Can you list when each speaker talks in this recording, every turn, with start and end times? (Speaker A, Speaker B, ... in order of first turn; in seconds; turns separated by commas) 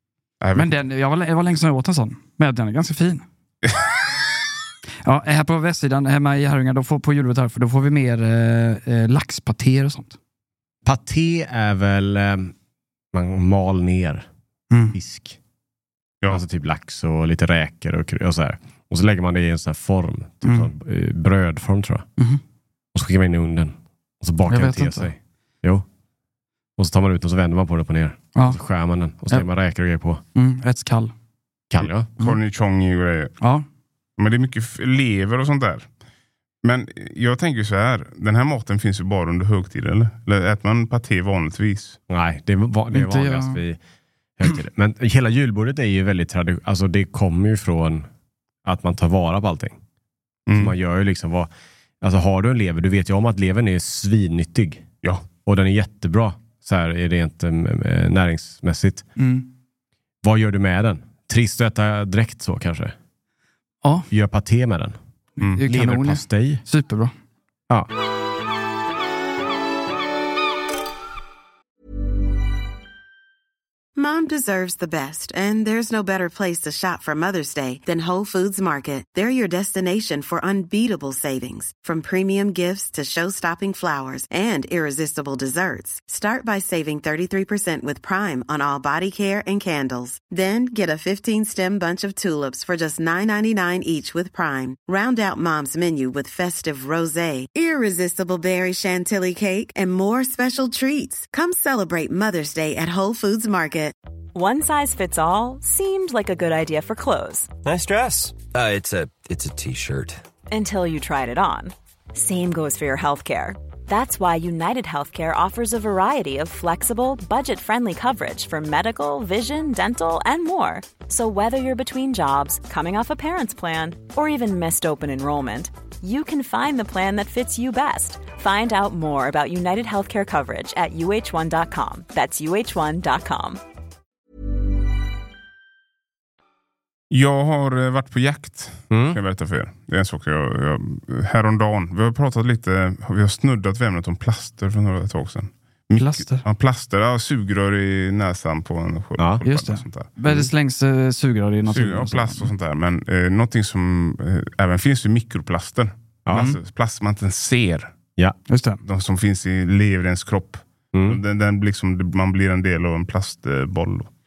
Speaker A: 0.4-0.7, Speaker B: 0.5-3.2, Speaker B: 5.0-10.2, Speaker C: 10.8-12.5, Speaker C: 13.1-14.2, Speaker B: 14.7-15.0, Speaker C: 14.9-15.4, Speaker C: 16.3-22.1, Speaker B: 20.4-20.7, Speaker C: 22.9-25.9, Speaker B: 24.5-25.1, Speaker C: 26.8-30.2, Speaker B: 28.3-28.6, Speaker B: 30.3-31.1, Speaker C: 31.7-32.1, Speaker A: 31.8-33.3, Speaker A: 34.2-35.9, Speaker A: 36.6-42.0, Speaker C: 42.1-43.8, Speaker B: 42.9-43.6, Speaker C: 44.4-48.1, Speaker C: 48.6-49.8, Speaker A: 50.5-50.7, Speaker C: 50.5-51.5, Speaker C: 52.0-54.8, Speaker C: 55.4-59.0, Speaker B: 59.2-59.5, Speaker C: 60.2-62.9, Speaker C: 64.1-65.0, Speaker B: 65.4-67.1, Speaker C: 65.6-66.6, Speaker D: 74.0-103.9, Speaker E: 104.3-107.5, Speaker F: 107.6-110.2, Speaker E: 110.5-133.6, Speaker A: 137.1-150.1, Speaker C: 138.9-139.2, Speaker B: 146.0-146.4, Speaker B: 149.4-152.5, Speaker C: 150.2-150.5, Speaker A: 151.7-157.9, Speaker C: 156.2-156.5, Speaker B: 158.5-158.8, Speaker A: 158.8-164.1, Speaker C: 160.9-161.2